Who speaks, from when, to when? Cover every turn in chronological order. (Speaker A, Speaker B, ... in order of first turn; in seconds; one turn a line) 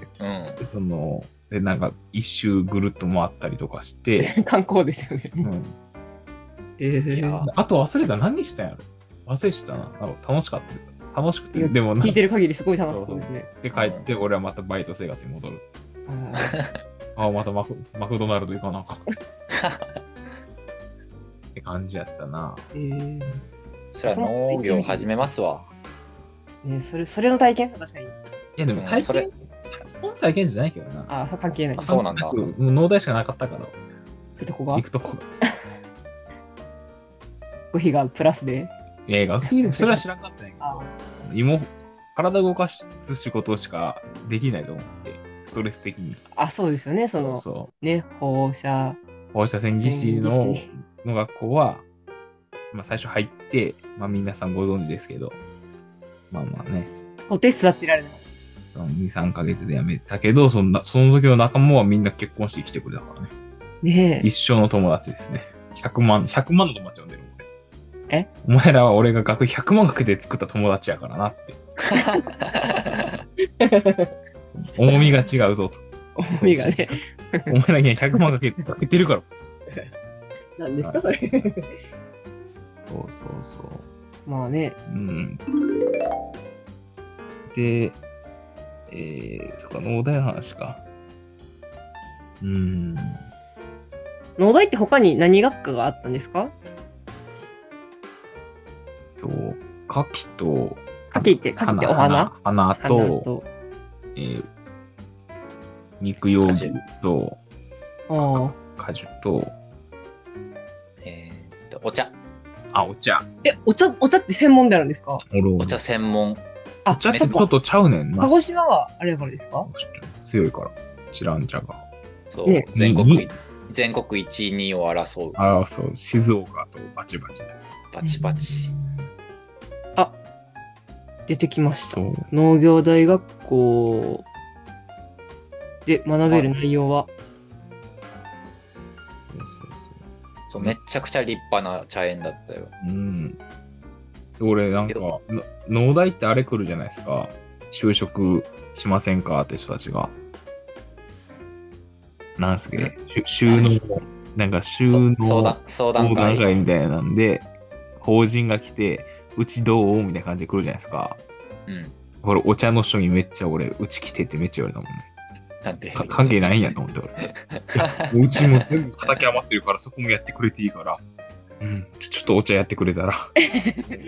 Speaker A: 0.2-0.6
Speaker B: 0.6-4.3
Speaker C: 4.2-5.5
Speaker B: 5.4-5.7
Speaker C: 6.8-7.5
Speaker A: 7.1-7.5
Speaker B: 7.5-12.2
Speaker C: 11.5-13.5
Speaker B: 12.9-15.6
Speaker A: 13.7-14.1
Speaker C: 16.1-16.6
Speaker A: 16.4-16.8
Speaker B: 17.2-19.0
Speaker A: 19.5-20.0
Speaker B: 21.6-22.7
Speaker C: 22.7-23.4
Speaker A: 23.9-25.7
Speaker C: 24.1-25.1
Speaker C: 26.6-28.1
Speaker B: 28.6-31.1
Speaker A: 28.8-29.3
Speaker C: 31.1-31.9
Speaker A: 31.8-32.4
Speaker B: 31.9-33.8
Speaker C: 34.4-34.9
Speaker B: 34.7-35.2
Speaker C: 37.7-38.7
Speaker B: 39.1-46.2
Speaker C: 39.5-40.0
Speaker C: 40.6-41.0
Speaker C: 46.3-49.0
Speaker B: 47.1-47.7
Speaker B: 49.3-51.8
Speaker C: 49.7-50.7
Speaker B: 52.7-55.4
Speaker B: 56.3-56.9
Speaker C: 57.3-58.2
Speaker B: 58.7-63.3
Speaker C: 63.8-64.3
Speaker B: 64.2-67.4
Speaker B: 68.4-71.6
Speaker A: 71.9-73.1
Speaker C: 71.9-72.2
Speaker C: 73.6-74.1
Speaker B: 74.7-79.4
Speaker C: 76.2-77.5
Speaker C: 80.6-81.8
Speaker B: 80.8-81.5
Speaker B: 82.9-83.9
Speaker C: 84.3-84.8
Speaker B: 84.9-85.4
Speaker B: 87.5-88.0
Speaker B: 88.9-90.8
Speaker B: 92.4-93.2
Speaker C: 94.4-96.5
Speaker B: 99.2-103.3
Speaker C: 101.1-103.5
Speaker B: 104.2-104.5
Speaker B: 106.0-107.4
Speaker A: 106.4-106.8
Speaker C: 108.1-108.5
Speaker B: 108.2-109.5
Speaker A: 111.0-112.2
Speaker B: 112.7-113.3
Speaker C: 113.4-115.2
Speaker B: 115.2-115.8
Speaker A: 115.6-116.5
Speaker C: 116.8-117.5
Speaker B: 116.9-118.4
Speaker A: 117.2-117.4
Speaker C: 118.2-119.7
Speaker B: 119.7-121.8
Speaker A: 122.3-125.4
Speaker B: 122.8-123.3
Speaker B: 125.4-127.5
Speaker A: 127.9-128.7
Speaker C: 128.0-129.1
Speaker C: 131.3-134.3
Speaker B: 131.9-132.3
Speaker C: 135.9-137.1
Speaker B: 139.3-140.0
Speaker A: 140.5-142.7
Speaker B: 142.8-143.4
Speaker B: 144.4-150.2
Speaker B: 152.4-157.5
Speaker A: 152.8-153.8
Speaker A: 154.9-156.5
Speaker B: 158.0-161.2
Speaker A: 161.7-161.9
Speaker B: 162.2-165.0
Speaker A: 165.6-169.3
Speaker B: 165.9-167.2
Speaker B: 167.7-171.0
Speaker B: 171.6-173.3
Speaker C: 173.4-174.0